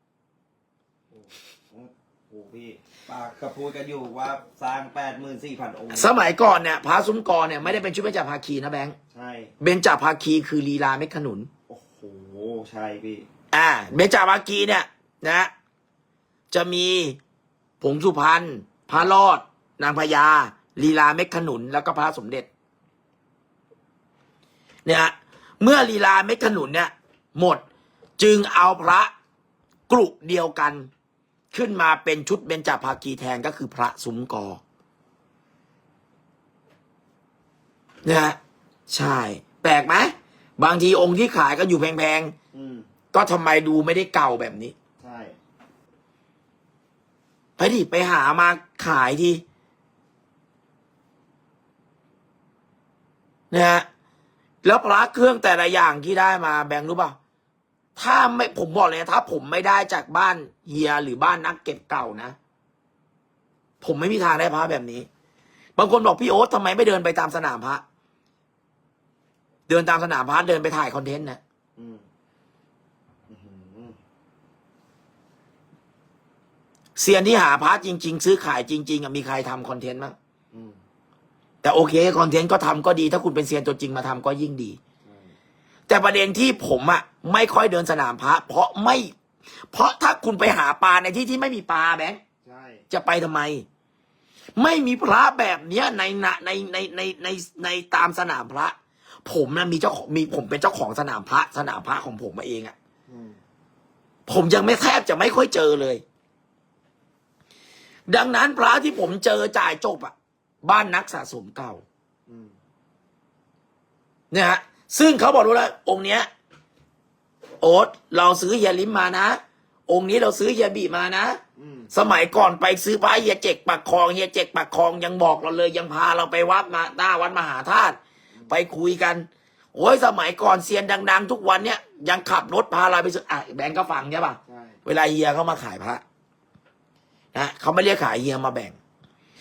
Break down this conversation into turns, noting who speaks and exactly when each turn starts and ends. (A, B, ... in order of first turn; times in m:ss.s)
0:01.1-0:06.2 A
0:05.9-0:09.0 B
0:09.1-0:09.5 A
0:09.6-0:11.5 B
0:11.7-0:13.3 A
0:13.5-0:15.5 B
0:16.5-0:17.2 B
0:17.8-0:22.5 B
0:24.8-0:27.6 B
0:28.2-0:29.1 B
0:29.9-0:30.9 B
0:31.5-0:34.6 B
0:38.0-0:38.4 B
0:38.9-0:42.3 B
0:42.5-0:42.9 A
0:43.1-0:44.7 B
0:45.0-0:45.4 A
0:47.6-0:49.4 B
0:53.5-0:53.8 B
0:54.6-0:57.2 B
0:58.0-1:02.4 B
1:03.8-1:05.1 B
1:05.8-1:07.8 B
1:09.7-1:11.4 B
1:11.8-1:12.0 A
1:13.3-1:14.0 A
1:17.0-1:20.1 B
1:20.5-1:20.8 A
1:21.6-1:24.8 B
1:25.0-1:25.3 A
1:25.9-1:29.1 B
1:29.7-1:32.2 B
1:32.4-1:32.8 A
1:32.9-1:33.6 B
1:34.6-1:42.7 B
1:43.1-1:43.4 A
1:44.3-1:46.0 B
1:48.1-1:51.8 B
1:52.3-1:52.5 A
1:54.3-1:56.3 B
1:57.6-2:01.4 B
2:01.6-2:01.9 A
2:01.9-2:16.0 B
2:14.5-2:14.8 A
2:17.3-2:18.8 B